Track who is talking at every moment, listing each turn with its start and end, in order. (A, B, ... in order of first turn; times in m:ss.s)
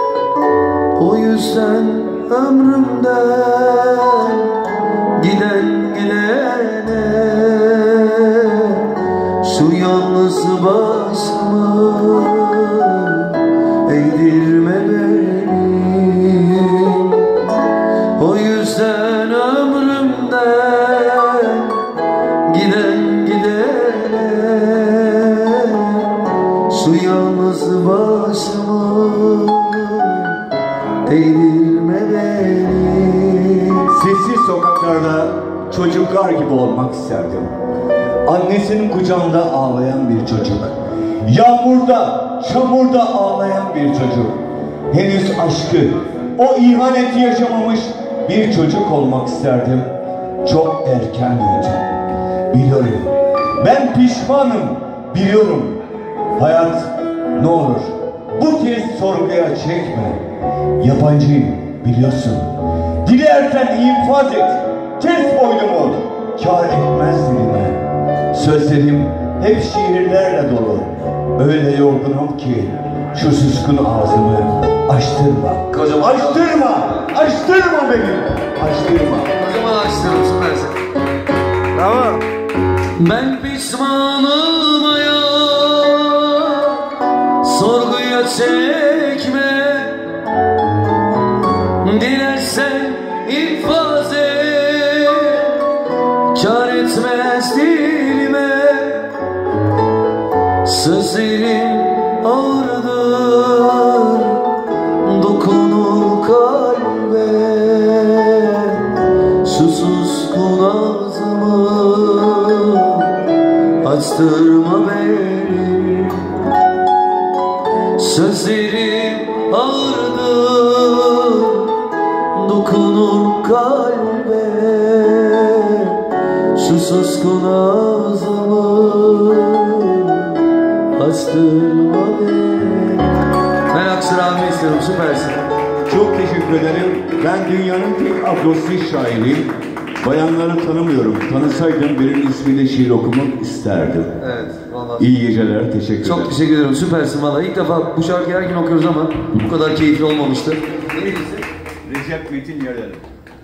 0:01.0-0:17.4 A
0:18.2-0:21.9 A
0:22.5-0:30.4 A
0:31.0-0:33.9 A
0:33.9-0:37.5 B
0:38.3-0:49.9 B
0:50.4-0:52.0 B
0:52.5-0:55.8 B
0:56.4-1:00.2 B
1:00.8-1:19.4 B
1:15.7-1:16.4 A
1:19.3-1:20.9 A
1:21.8-1:22.2 A
1:23.0-1:30.1 A
1:31.8-1:35.7 A
1:36.3-1:39.2 A
1:40.6-1:56.4 A
1:58.0-2:15.4 A
2:15.9-2:24.2 B
2:24.2-2:25.1 A
2:25.0-2:26.3 B
2:26.0-2:31.4 A
2:31.9-2:33.0 B